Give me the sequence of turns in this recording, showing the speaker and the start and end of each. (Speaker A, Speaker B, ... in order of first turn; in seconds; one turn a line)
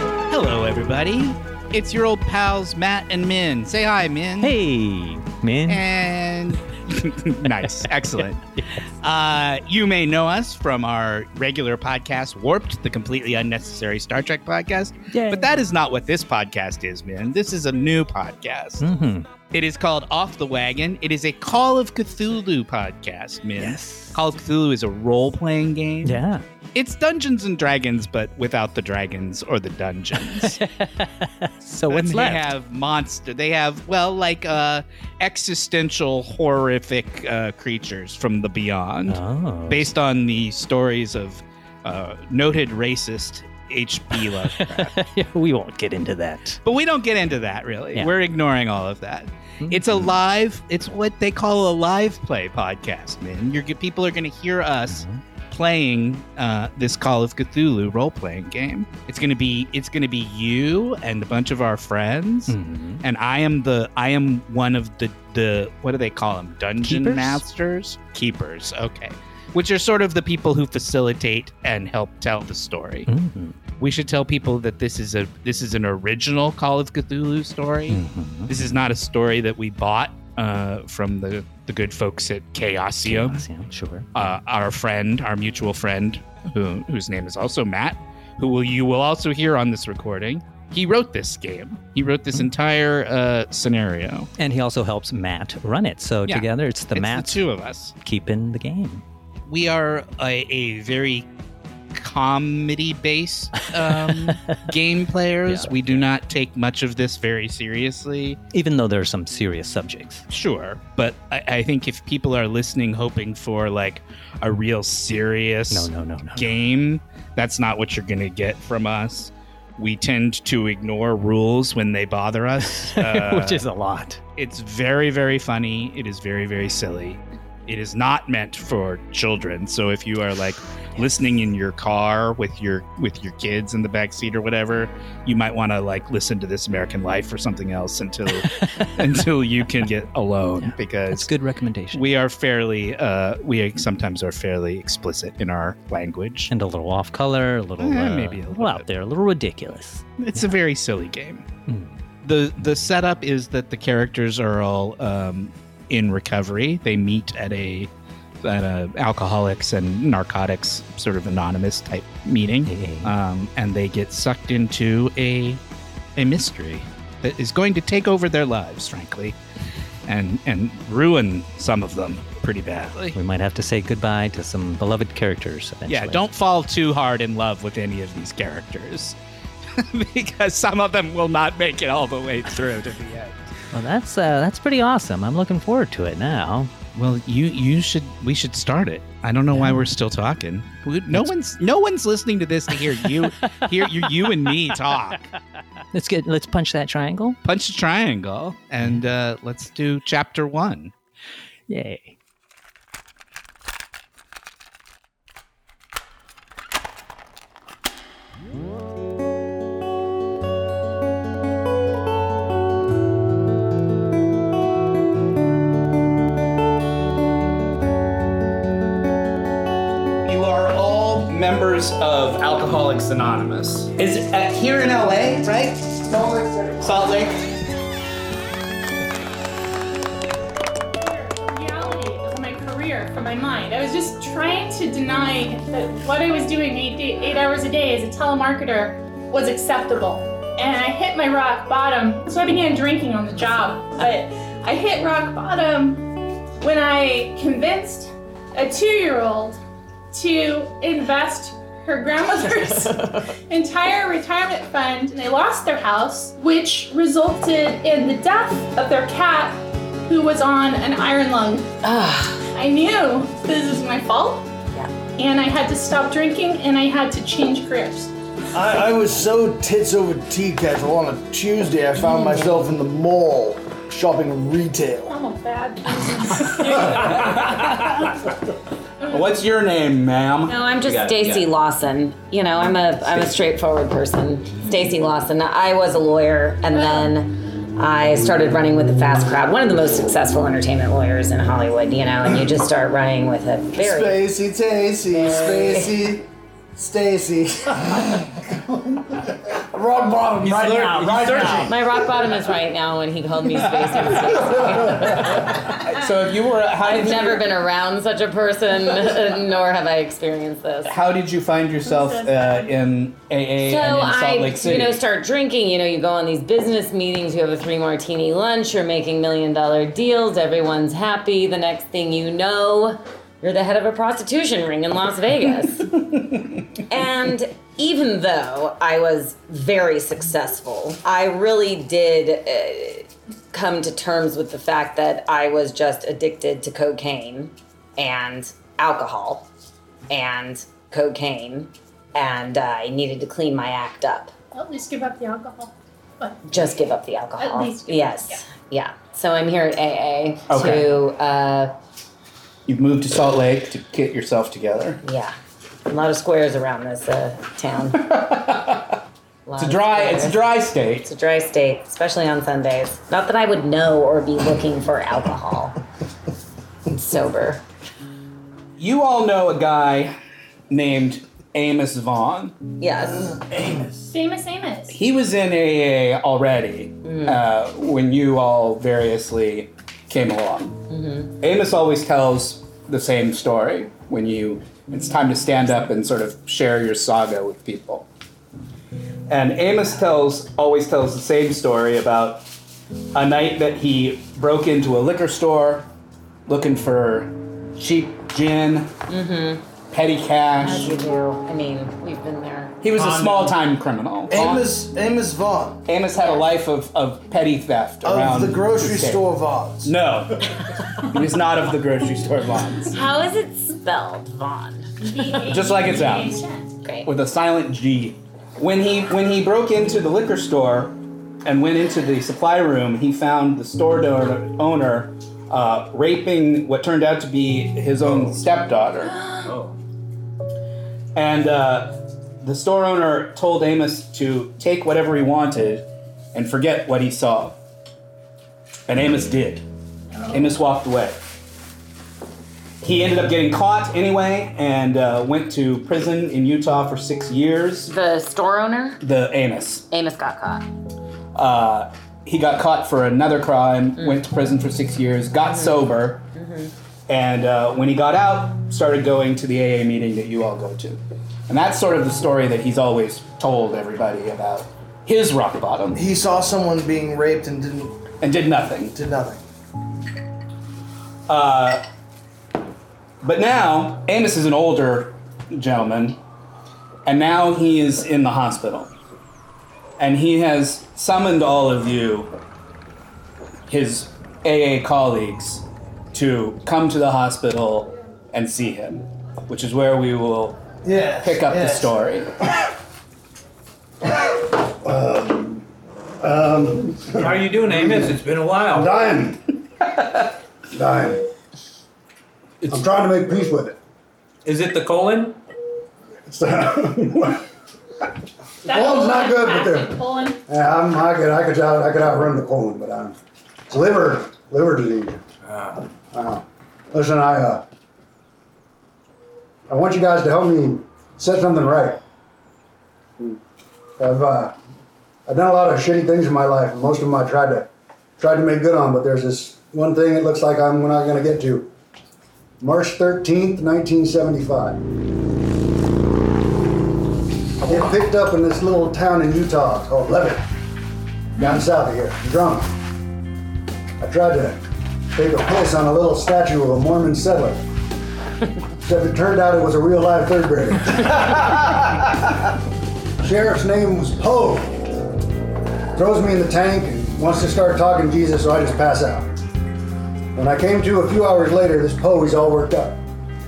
Speaker A: 0.3-4.6
Speaker B: 4.4-5.9
Speaker A: 5.7-8.4
Speaker B: 7.6-8.8
Speaker A: 9.0-18.8
Speaker B: 15.1-15.6
Speaker B: 18.8-19.3
Speaker A: 19.5-26.2
Speaker B: 23.6-24.2
Speaker B: 26.0-26.4
Speaker A: 26.8-30.6
Speaker B: 30.2-32.5
Speaker A: 31.9-44.9
Speaker B: 39.1-39.9
Speaker B: 44.2-46.6
Speaker A: 46.6-73.1
Speaker B: 49.6-50.2
Speaker B: 54.9-55.2
Speaker B: 62.5-63.0
Speaker B: 66.8-67.4
Speaker B: 73.1-73.6
Speaker A: 73.8-83.5
Speaker B: 77.9-78.6
Speaker B: 83.0-84.1
Speaker A: 84.2-94.3
Speaker B: 94.4-97.5
Speaker A: 96.3-98.0
Speaker B: 98.0-99.0
Speaker A: 99.5-101.3
Speaker A: 101.9-108.4
Speaker B: 103.8-104.6
Speaker B: 105.5-106.1
Speaker B: 108.5-110.3
Speaker A: 110.3-123.6
Speaker B: 115.7-116.6
Speaker B: 122.7-124.2
Speaker A: 124.4-141.3
Speaker B: 140.6-142.1
Speaker A: 141.9-146.5
Speaker B: 146.5-150.0
Speaker A: 147.8-148.9
Speaker A: 150.2-151.5
Speaker B: 151.7-152.0
Speaker A: 152.2-157.9
Speaker A: 158.4-165.6
Speaker B: 162.7-163.2
Speaker A: 166.2-169.4
Speaker A: 170.1-173.2
Speaker B: 173.1-176.2
Speaker A: 175.9-179.2
Speaker A: 179.8-183.4
Speaker B: 183.7-186.7
Speaker A: 186.9-195.3
Speaker B: 189.5-189.9
Speaker B: 193.0-194.8
Speaker B: 195.9-197.4
Speaker A: 197.4-200.9
Speaker B: 201.7-202.2
Speaker A: 220.3-226.0
Speaker C: 226.0-227.1
Speaker A: 226.8-227.4
Speaker D: 231.0-246.1
Speaker D: 246.6-249.6
Speaker D: 250.1-261.7
Speaker E: 261.8-262.4
Speaker D: 262.5-264.5
Speaker D: 265.2-268.1
Speaker F: 268.5-275.2
Speaker D: 275.1-277.5
Speaker A: 277.5-278.0
Speaker A: 279.1-280.6
Speaker E: 280.5-294.3
Speaker G: 280.8-281.5
Speaker D: 286.7-287.1
Speaker F: 293.8-301.7
Speaker E: 295.4-295.9
Speaker G: 300.4-301.7
Speaker E: 301.6-305.7
Speaker A: 304.9-307.5
Speaker E: 306.8-310.9
Speaker A: 310.9-315.0
Speaker D: 311.9-312.7
Speaker E: 313.6-326.0
Speaker E: 326.9-339.5
Speaker E: 340.1-344.3
Speaker D: 344.5-346.4
Speaker E: 346.4-351.7
Speaker D: 347.4-348.4
Speaker A: 350.5-350.9
Speaker A: 352.7-355.0
Speaker E: 355.0-355.4
Speaker E: 355.9-358.1
Speaker A: 358.0-359.0
Speaker E: 359.5-365.8
Speaker A: 359.6-361.1
Speaker E: 366.9-367.6
Speaker A: 368.8-370.1
Speaker A: 370.7-372.6
Speaker E: 372.8-373.4
Speaker D: 374.1-375.0
Speaker A: 374.9-388.1
Speaker E: 377.0-377.4
Speaker E: 380.9-381.3
Speaker A: 389.3-392.5
Speaker A: 393.1-395.9
Speaker A: 396.5-398.9
Speaker E: 399.1-399.6
Speaker A: 399.9-400.9
Speaker E: 400.6-402.8
Speaker A: 402.8-404.9
Speaker F: 402.9-403.6
Speaker F: 404.3-405.9
Speaker A: 405.9-409.3
Speaker E: 406.2-406.5
Speaker F: 408.0-409.9
Speaker A: 409.8-413.0
Speaker E: 412.9-414.9
Speaker D: 415.0-416.7
Speaker A: 415.5-416.4
Speaker E: 416.8-417.1
Speaker A: 417.1-429.2
Speaker G: 429.4-429.7
Speaker A: 431.1-437.6
Speaker A: 438.9-439.6
Speaker A: 440.3-441.2
Speaker A: 442.8-447.9
Speaker E: 447.9-449.0
Speaker A: 449.0-449.9
Speaker E: 449.9-450.7
Speaker A: 451.4-456.2
Speaker E: 455.5-455.8
Speaker E: 456.4-456.7
Speaker A: 457.1-466.1
Speaker F: 465.9-468.0
Speaker A: 468.2-469.0
Speaker F: 468.9-469.4
Speaker A: 471.3-471.8
Speaker A: 473.2-476.2
Speaker A: 477.1-478.9
Speaker A: 480.0-482.3
Speaker A: 483.7-490.6
Speaker F: 490.8-491.9
Speaker A: 491.2-492.3
Speaker C: 494.8-495.7
Speaker C: 496.2-499.4
Speaker G: 497.1-499.0
Speaker C: 500.7-501.2
Speaker C: 502.7-503.8
Speaker G: 504.4-505.4
Speaker C: 506.3-507.4
Speaker D: 508.6-510.4
Speaker C: 508.6-513.2
Speaker C: 513.7-515.2
Speaker C: 516.1-517.6
Speaker C: 519.7-522.0
Speaker C: 524.0-524.5
Speaker C: 525.3-531.7
Speaker C: 532.6-534.8
Speaker C: 537.6-540.5
Speaker C: 541.4-542.7
Speaker C: 544.0-547.6
Speaker C: 548.8-551.8
Speaker C: 553.2-554.8
Speaker C: 556.0-559.4
Speaker C: 560.4-563.0